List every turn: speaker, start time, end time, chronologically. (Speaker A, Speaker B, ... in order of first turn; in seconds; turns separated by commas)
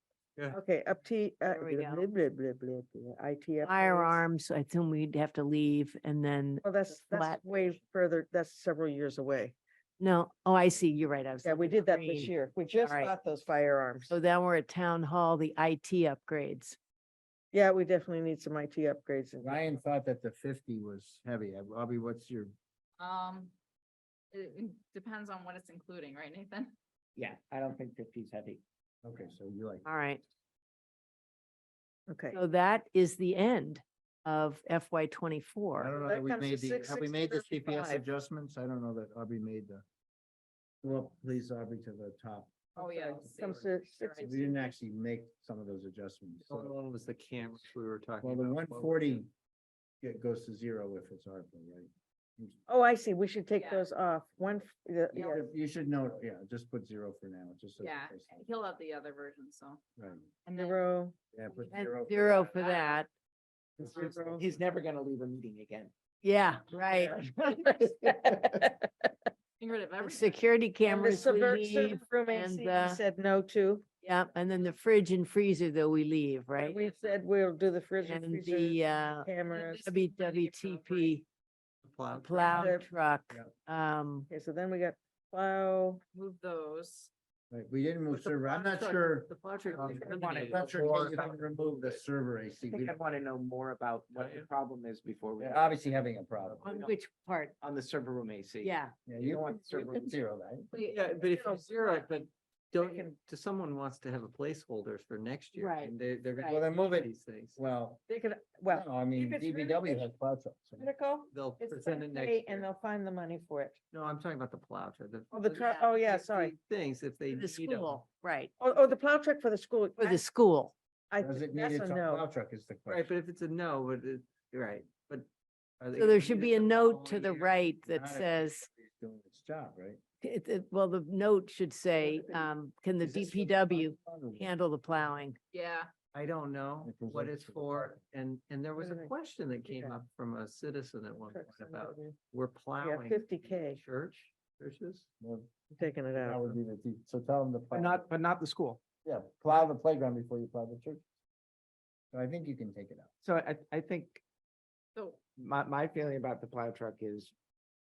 Speaker A: 0.5-4.2, Speaker B: 1.4-2.1, Speaker B: 3.6-7.5, Speaker A: 6.6-9.6, Speaker B: 10.0-13.2, Speaker A: 11.4-14.1, Speaker B: 14.1-16.8, Speaker A: 17.5-19.6, Speaker C: 19.4-22.5, Speaker D: 23.0-23.5, Speaker D: 24.3-26.7, Speaker E: 27.1-28.6, Speaker C: 29.0-29.9, Speaker B: 29.8-30.2, Speaker A: 32.1-32.4, Speaker B: 32.3-35.9, Speaker C: 35.8-39.8, Speaker A: 36.0-38.0, Speaker C: 40.8-42.5, Speaker D: 42.8-44.6, Speaker A: 42.8-44.5, Speaker C: 44.2-46.7, Speaker F: 46.5-49.2, Speaker C: 48.2-49.3, Speaker C: 50.0-52.6, Speaker A: 52.7-55.5, Speaker D: 53.5-53.8, Speaker C: 55.1-58.3, Speaker D: 57.8-59.8, Speaker C: 60.0-60.3, Speaker D: 60.4-60.8, Speaker A: 60.5-61.1, Speaker C: 61.3-62.8, Speaker B: 61.6-63.1, Speaker C: 63.8-64.4, Speaker A: 63.8-64.4, Speaker E: 64.3-65.9, Speaker B: 66.2-67.7, Speaker E: 67.2-68.7, Speaker D: 69.6-70.5, Speaker B: 70.0-73.0, Speaker A: 70.8-73.8, Speaker D: 71.0-71.8, Speaker B: 74.0-76.8, Speaker A: 76.6-79.9, Speaker B: 78.0-81.2, Speaker D: 79.5-81.1, Speaker F: 81.8-82.7, Speaker B: 82.2-84.3, Speaker A: 82.5-82.9, Speaker A: 84.3-86.0, Speaker D: 86.1-87.1, Speaker C: 87.5-93.0, Speaker F: 88.1-91.4, Speaker E: 89.7-92.0, Speaker E: 92.6-96.1, Speaker F: 94.1-94.5, Speaker C: 95.4-96.7, Speaker B: 96.6-97.6, Speaker E: 96.7-96.9, Speaker E: 97.6-100.2, Speaker B: 98.6-99.0, Speaker C: 99.0-100.7, Speaker D: 100.7-101.7, Speaker F: 100.8-107.6, Speaker B: 105.5-106.6, Speaker C: 106.4-108.0, Speaker A: 108.1-108.8, Speaker C: 108.7-110.9, Speaker E: 109.2-109.9, Speaker A: 110.8-113.8, Speaker F: 111.3-112.7, Speaker F: 113.9-118.0, Speaker A: 115.3-116.5, Speaker B: 117.3-118.5, Speaker A: 118.6-120.2, Speaker B: 120.0-120.7, Speaker A: 121.1-122.3, Speaker C: 121.2-123.1, Speaker F: 122.9-125.3, Speaker F: 125.8-127.7, Speaker B: 125.9-128.7, Speaker C: 127.8-130.0, Speaker B: 130.2-135.4, Speaker C: 133.0-134.5, Speaker D: 135.5-135.9, Speaker F: 136.1-145.1, Speaker C: 136.8-138.0, Speaker A: 138.8-139.1, Speaker A: 139.6-140.0, Speaker A: 141.3-142.2, Speaker A: 142.8-143.8, Speaker C: 145.2-145.5, Speaker A: 145.7-146.5, Speaker C: 146.1-148.1, Speaker E: 147.7-148.8, Speaker C: 149.0-151.0, Speaker C: 152.1-153.1, Speaker E: 153.2-154.2, Speaker D: 154.9-155.2, Speaker E: 155.3-157.3